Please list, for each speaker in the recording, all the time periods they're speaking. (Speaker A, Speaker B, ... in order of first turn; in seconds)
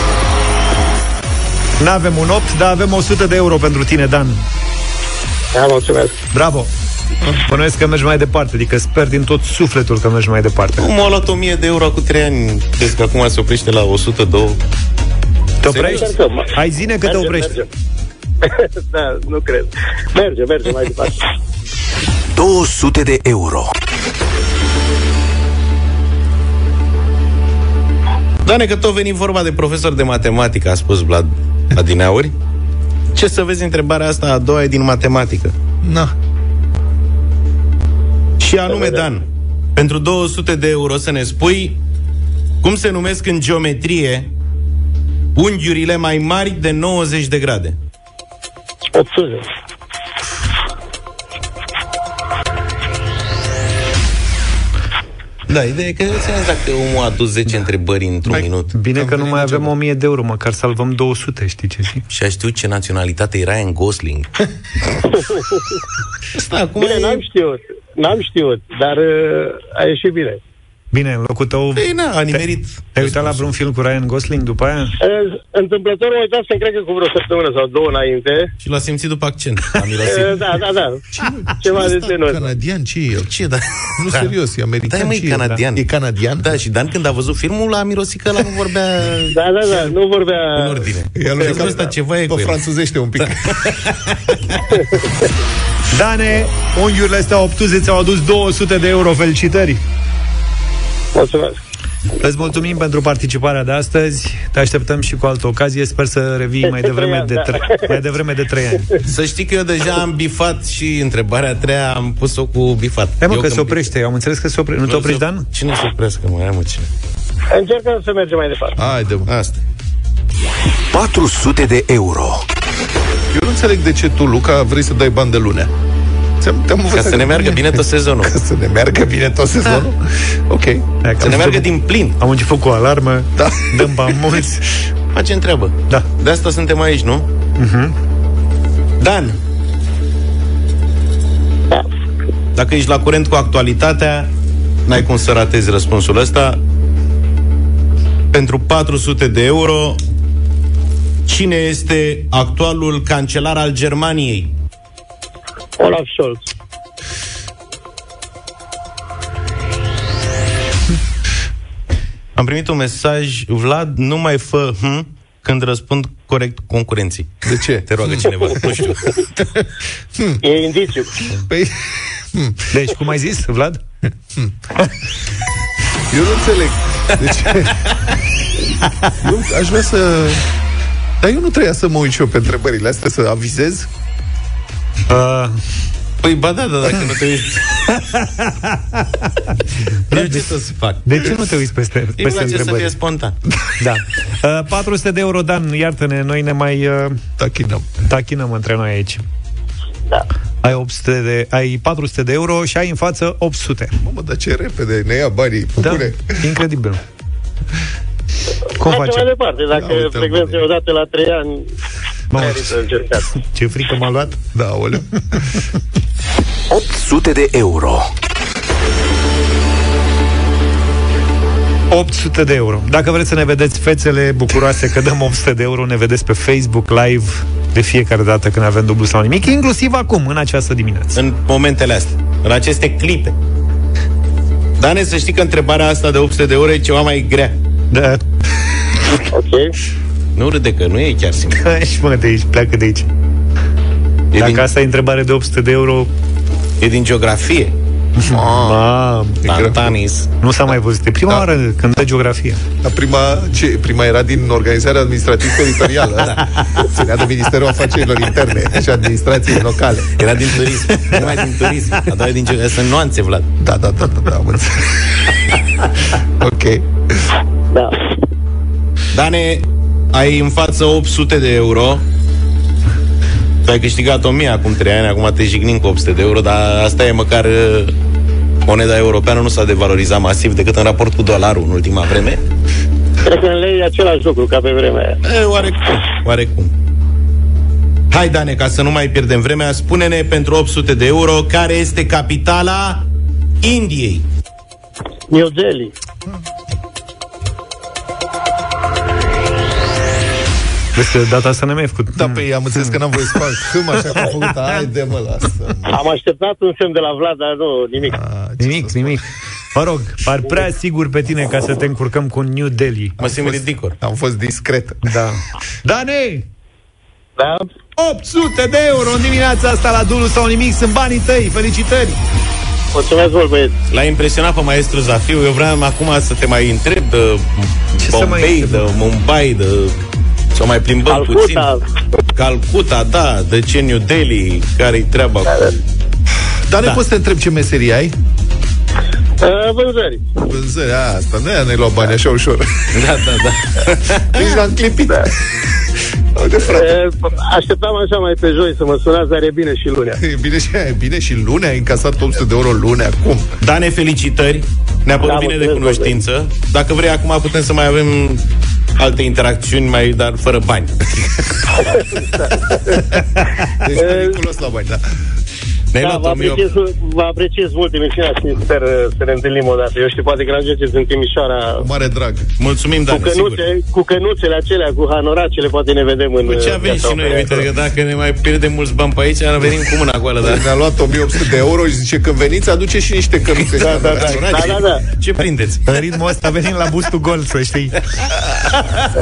Speaker A: 1.8-4.4, 6.3-6.7, 7.5-10.9, 15.6-17.6, 58.7-62.0, 70.9-75.0, 95.9-99.8, 102.2-108.9, 113.2-115.5, 131.0-134.7, 137.6-137.9, 172.7-173.8, 185.1-185.5, 188.0-189.5, 190.1-190.5, 191.1-192.9, 193.8-197.2, 198.1-199.2, 200.6-204.0, 205.8-207.0, 208.8-209.3, 212.3-212.7, 213.3-214.4, 221.9-231.2, 237.9-238.2, 241.6-243.1, 244.4-246.1, 248.2-249.4, 250.4-252.6, 300.9-303.0, 308.6-313.2, 315.0-316.5, 318.0-322.2, 328.0-328.9, 385.9-388.0, 388.8-389.1
Speaker B: 5.5-6.2, 15.7-17.6, 18.4-21.2, 38.7-39.0, 48.9-49.5, 65.3-65.6, 66.8-70.4, 75.0-78.5, 80.0-81.0, 81.6-82.5, 89.3-90.9, 91.4-91.7, 101.2-101.6, 106.7-107.8, 117.5-118.8, 155.8-156.5, 170.4-171.1, 208.8-211.7, 212.3-213.3, 239.3-239.7, 267.7-268.2, 283.2-285.2, 295.3-295.9, 305.9-308.2, 317.4-317.7, 322.9-323.7, 331.1-331.8, 339.4-340.3, 346.7-350.2, 355.2-356.2, 361.8-363.0, 363.9-364.4, 366.0-371.9, 373.1-377.7, 383.8-385.0
Speaker C: 10.8-14.6, 15.7-16.1, 28.4-32.3, 33.1-35.5, 38.4-41.8, 42.6-44.3, 45.4-47.8, 55.5-58.7, 62.1-64.3, 66.3-67.2, 71.8-73.5, 78.6-80.5, 83.3-84.3, 84.9-85.8, 86.4-89.9, 90.5-92.6, 93.2-94.6, 109.1-113.9, 114.8-116.9, 119.3-119.6, 127.0-128.3, 131.2-132.2, 135.1-137.3, 139.0-139.4, 142.6-144.3, 144.9-146.6, 148.3-150.0, 151.3-154.6, 162.3-167.3, 167.9-169.2, 186.2-187.7, 190.1-191.2, 192.2-193.4, 231.2-233.3, 234.8-237.6, 240.4-241.6, 244.3-244.7, 246.8-247.8, 249.5-250.3, 256.2-256.6, 260.2-263.5, 269.1-272.0, 273.6-277.9, 278.6-282.4, 285.2-286.7, 288.1-293.1, 293.6-294.2, 313.2-314.0, 323.9-330.0, 330.6-331.7, 332.4-335.7, 342.9-344.5, 353.6-358.4, 359.0-361.3, 365.9-366.7, 372.6-373.6, 376.5-380.6, 383.7-385.8
Speaker D: 22.4-23.7, 120.9-122.4, 216.7-218.1
Speaker E: 35.8-36.1, 58.3-59.7, 81.1-83.3, 84.0-86.6, 91.2-93.7, 118.8-119.3, 123.3-125.7, 126.4-131.0, 133.4-133.9, 167.4-168.8, 170.2-170.4, 171.4-172.6, 176.1-177.8, 179.2-180.4, 181.2-183.9, 197.4-198.0, 204.0-206.4, 209.8-210.7, 214.5-215.6, 248.3-248.8, 249.4-249.9, 252.8-260.1, 263.6-265.2, 266.4-267.3, 302.1-306.0, 308.0-309.2, 313.2-315.1, 336.7-338.2, 340.5-342.8, 344.3-345.4, 346.4-347.0, 350.2-353.5, 363.8-365.0, 371.8-372.5, 380.4-384.8